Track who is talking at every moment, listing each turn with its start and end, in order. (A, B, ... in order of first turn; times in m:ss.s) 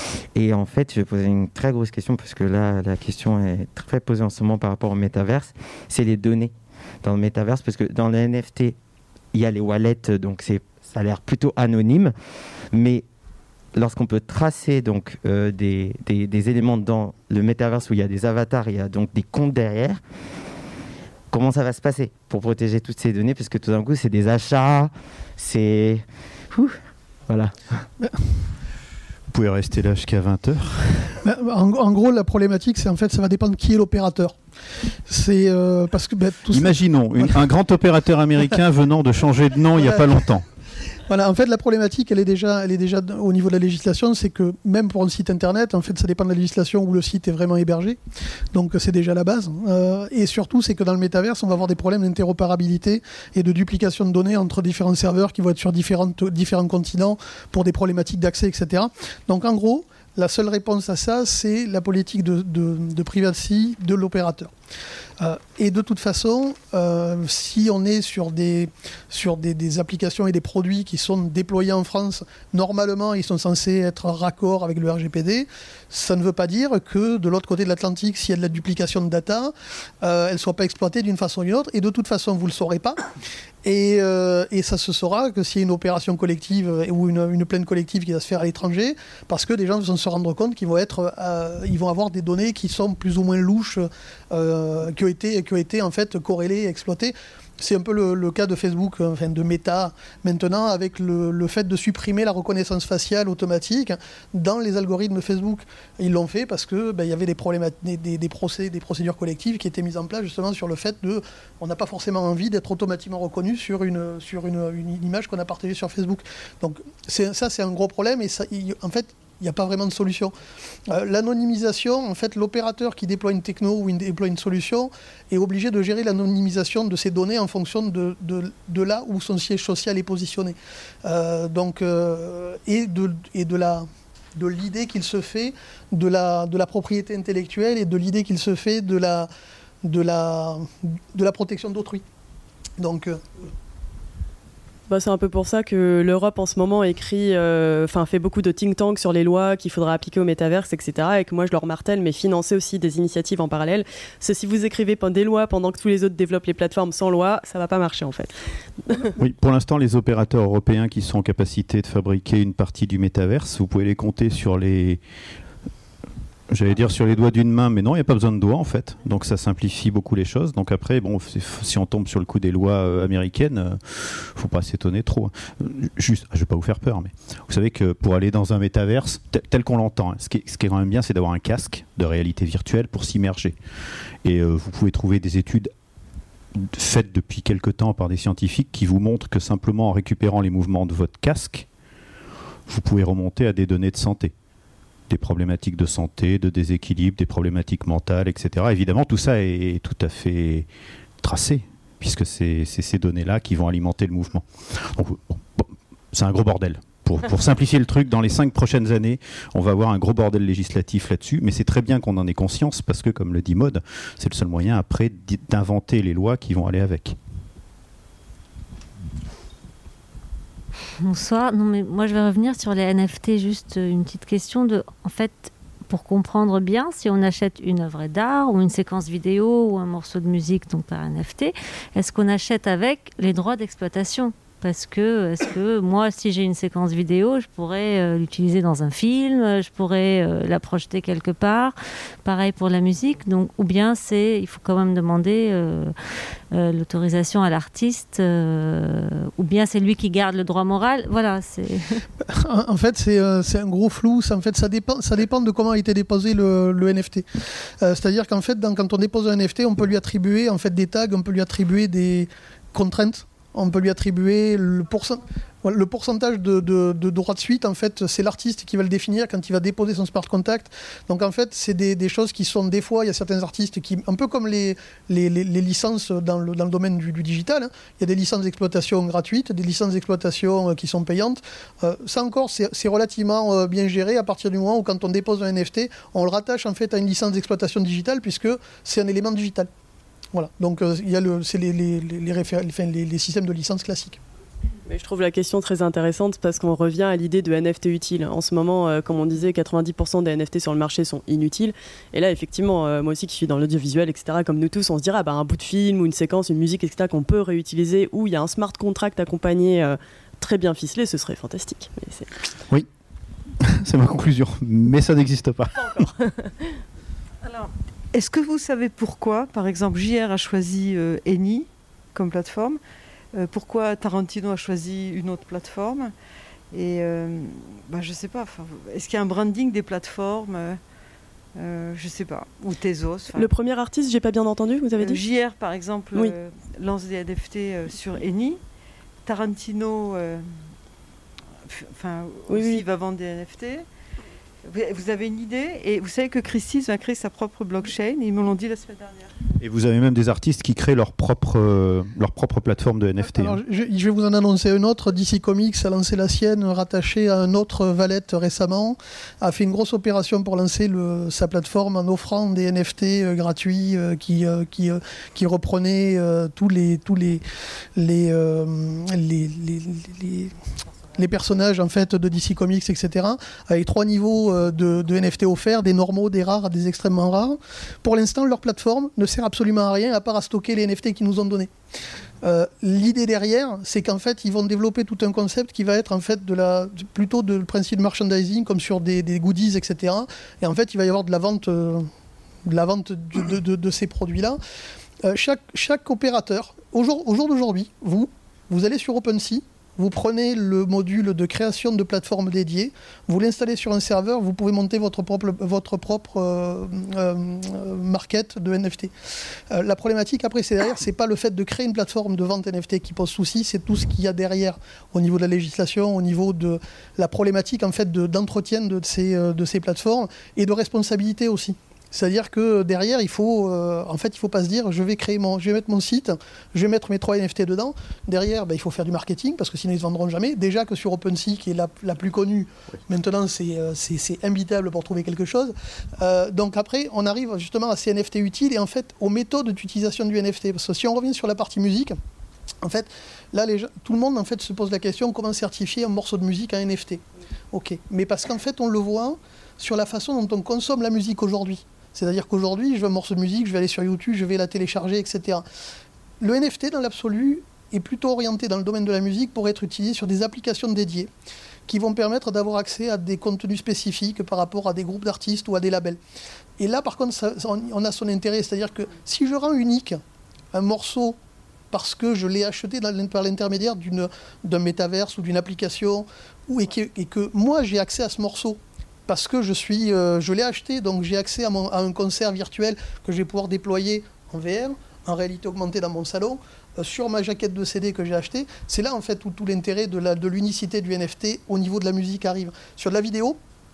0:00.3-0:08.8 A
0:09.3-0:12.1 A
0:12.7-0:13.0 A
0:13.7-0:20.0 A
0:21.3-0:27.6 A
0:29.3-0:31.2 B
0:31.2-0:34.4 C
0:35.1-0:36.8 C
0:36.5-0:40.4 B
0:41.1-0:48.0 C
0:48.5-1:04.5 C
1:05.2-1:23.0 C
1:23.6-2:00.3 C
2:00.9-2:19.3 C
2:19.8-2:22.0 C
2:22.8-2:23.2 C
2:24.9-2:38.3 D
2:39.2-2:45.0 B
2:46.5-3:03.6 B
3:04.2-3:05.7 B
3:06.5-3:11.7 B
3:12.7-3:14.3 B
3:15.1-3:20.7 B
3:21.2-3:37.2 B
3:41.0-4:05.9 E
4:06.5-4:12.0 E
4:12.3-4:49.7 C
4:50.3-4:54.2 C
4:54.8-5:12.3 D
5:13.6-5:16.1 B
5:17.4-5:22.8 F
5:23.3-5:26.1 F
5:26.7-5:30.8 F
5:31.6-5:33.5 F
5:33.3-5:35.2 D
5:35.0-5:38.6 F
5:39.2-5:40.5 F
5:41.6-5:43.8 F
5:42.5-5:42.8 D
5:44.6-5:49.4 F
5:49.6-5:53.6 B
5:53.2-6:07.4 C
6:08.0-6:10.5 C
6:11.1-6:21.7 C
6:22.4-6:32.1 C
6:32.6-6:34.6 C
6:35.2-6:49.1 C
6:49.7-7:22.2 C
7:22.8-7:35.6 C
7:36.4-7:41.3 C
7:41.9-7:46.2 C
7:46.8-7:50.2 C
7:50.7-7:51.4 C
7:51.9-8:13.6 C